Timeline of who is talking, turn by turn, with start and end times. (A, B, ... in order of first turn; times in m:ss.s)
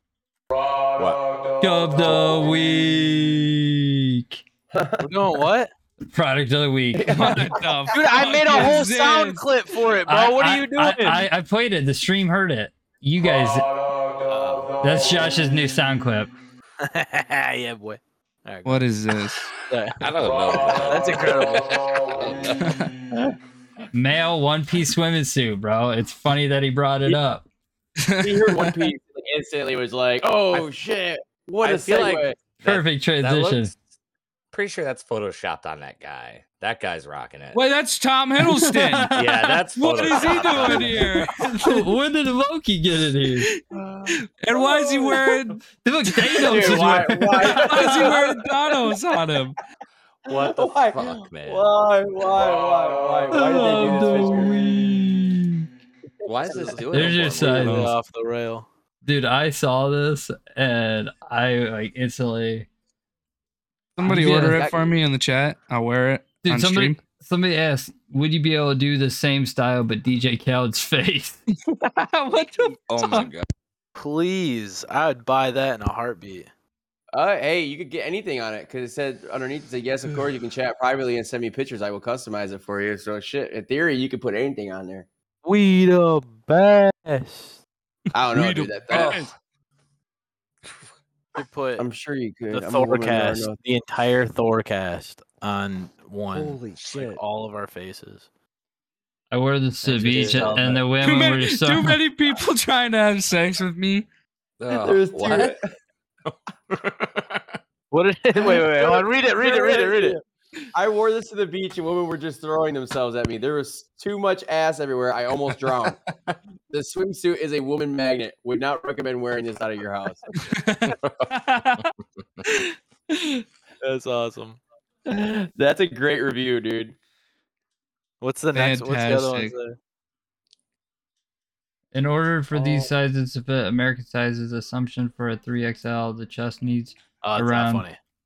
0:01.0-0:01.3 A
0:01.6-0:04.4 B
0:04.7-0:05.1 C
0:05.0-0:05.7 D
0:06.1-0:07.5 B
0:06.9-0:07.9 C
0:07.1-0:09.4 E
0:07.9-0:11.3 D
0:10.1-0:13.7 B
0:14.3-0:14.7 D
0:14.8-0:16.3 B
0:16.8-0:18.8 D
0:18.6-0:19.5 E
0:19.7-0:20.1 D
0:20.0-0:22.7 A
0:20.8-0:21.8 D
0:22.6-0:22.9 E
0:23.9-0:27.4 B
0:28.0-0:28.9 E
0:28.2-0:32.4 C
0:31.6-0:33.7 A
0:32.6-0:33.7 B
0:34.5-0:37.6 A
0:37.5-0:39.1 E
0:38.4-0:39.7 B
0:39.1-0:41.2 A
0:39.8-0:41.8 E
0:41.2-0:43.5 B
0:43.7-0:45.3 C
0:44.4-0:45.6 E
0:45.8-0:48.2 B
0:46.2-0:46.5 E
0:46.3-0:49.0 C
0:47.4-0:49.6 E
0:50.3-0:51.7 A
0:50.3-0:54.6 C
0:53.3-0:55.7 B
0:56.2-0:57.9 A
0:56.3-0:56.8 C
0:56.5-0:58.6 D
0:56.9-0:57.9 B
0:59.0-1:02.7 B
1:04.0-1:07.0 E
1:04.0-1:04.6 B
1:04.5-1:05.0 C
1:06.4-1:11.4 B
1:11.8-1:13.3 E
1:12.9-1:13.5 A
1:14.0-1:16.5 D
1:17.1-1:25.1 C
1:25.4-1:27.6 D
1:28.1-1:29.2 C
1:28.3-1:29.3 E
1:28.9-1:29.3 A
1:31.3-1:31.8 D
1:31.8-1:33.6 C
1:32.5-1:38.3 D
1:36.3-1:37.2 A
1:39.3-1:42.0 B
1:39.8-1:40.8 D
1:40.0-1:40.5 A
1:41.0-1:44.0 E
1:44.6-1:45.6 A
1:44.7-1:45.6 C
1:46.2-1:47.6 A
1:47.9-1:50.2 D
1:48.4-1:50.2 C
1:50.7-1:56.0 C
1:56.1-1:56.3 A
1:56.7-2:00.2 C
2:00.4-2:01.9 E
2:00.9-2:01.3 A
2:02.5-2:04.6 D
2:05.1-2:07.0 C
2:08.2-2:09.8 D
2:08.5-2:09.5 E
2:11.9-2:17.8 B
2:12.5-2:12.9 C
2:17.2-2:18.0 D